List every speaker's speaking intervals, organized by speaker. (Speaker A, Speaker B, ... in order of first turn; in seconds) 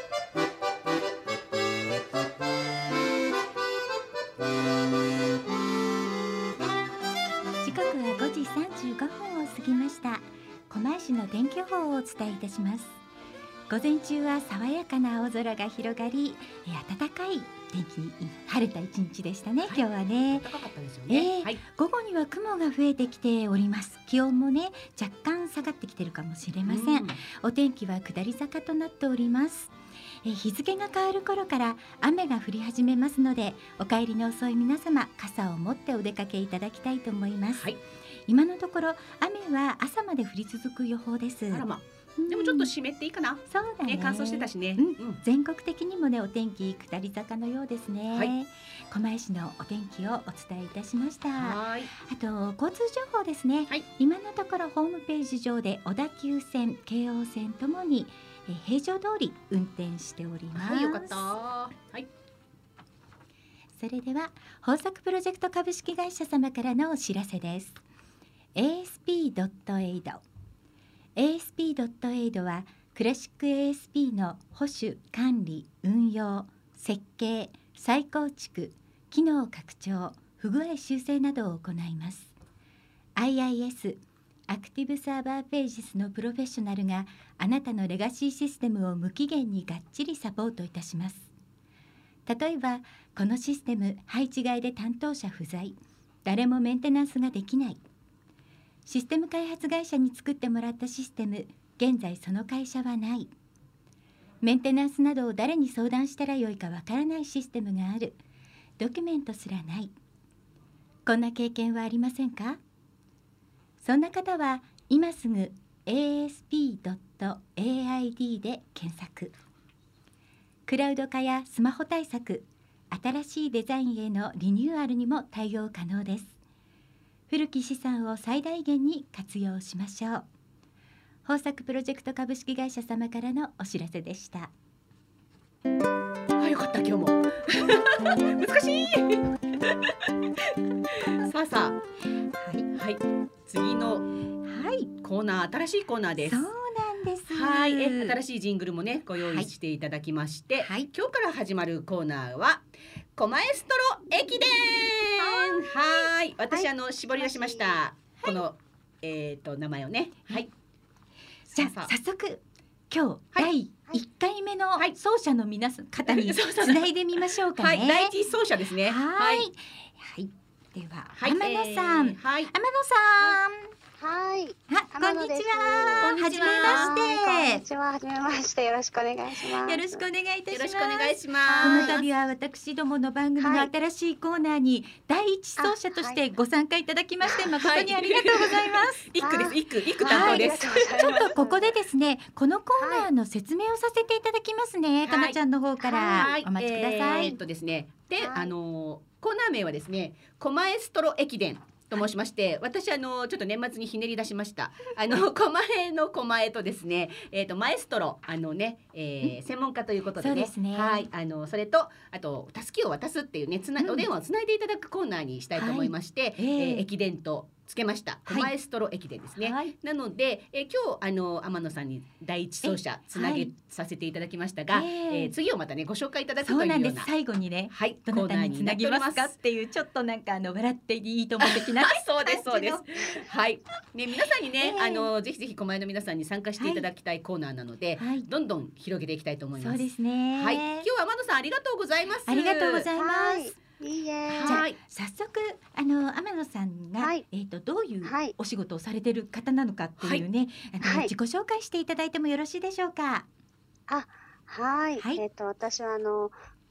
Speaker A: 7.6-13.0, 13.7-20.5, 21.1-29.7, 30.2-37.7, 38.3-41.6, 42.2-42.7, 43.5-61.4, 63.8-67.8, 68.6-70.2, 71.2-82.3, 83.2-91.3, 92.3-97.8, 98.9-103.3, 104.4-108.2, 108.8-109.9, 111.1-112.6, 113.8-119.3, 120.7-126.4, 127.3-130.3, 131.2-134.5, 142.4-142.7, 144.5-144.9, 146.2-148.2, 149.2-149.5, 150.6-150.9, 161.6-168.1, 168.9-173.7, 174.7-177.6, 179.6-189.1, 190.1-197.4, 210.2-211.1, 213.8-214.1, 215.6-216.9, 219.4-219.7, 222.6-223.5, 224.7-225.3, 226.4-232.8, 234.6-235.1, 236.6-236.9, 238.0-238.3, 239.6-240.9, 242.3-243.6, 244.4-253.3
Speaker B: 19.7-21.6, 26.6-27.2, 41.5-45.2, 51.4-51.9, 60.5-62.1, 136.4-139.7, 141.1-141.8, 142.7-144.1, 145.0-146.5, 147.3-152.6, 153.2-160.5, 161.5-161.9, 166.1-169.5, 171.2-172.5, 176.0-177.0, 180.5-182.1, 187.6-190.8, 195.1-227.1, 227.7-229.3, 231.4-242.9, 244.3-244.8, 250.0-250.2
Speaker C: 155.2-157.8, 174.0-180.0, 181.5-182.0, 183.4-183.7, 185.6-186.2, 189.2-191.8, 192.8-193.1, 195.9-196.3, 198.2-198.5, 242.9-244.7, 247.0-247.2, 248.0-248.3, 250.8-251.1, 253.9-256.3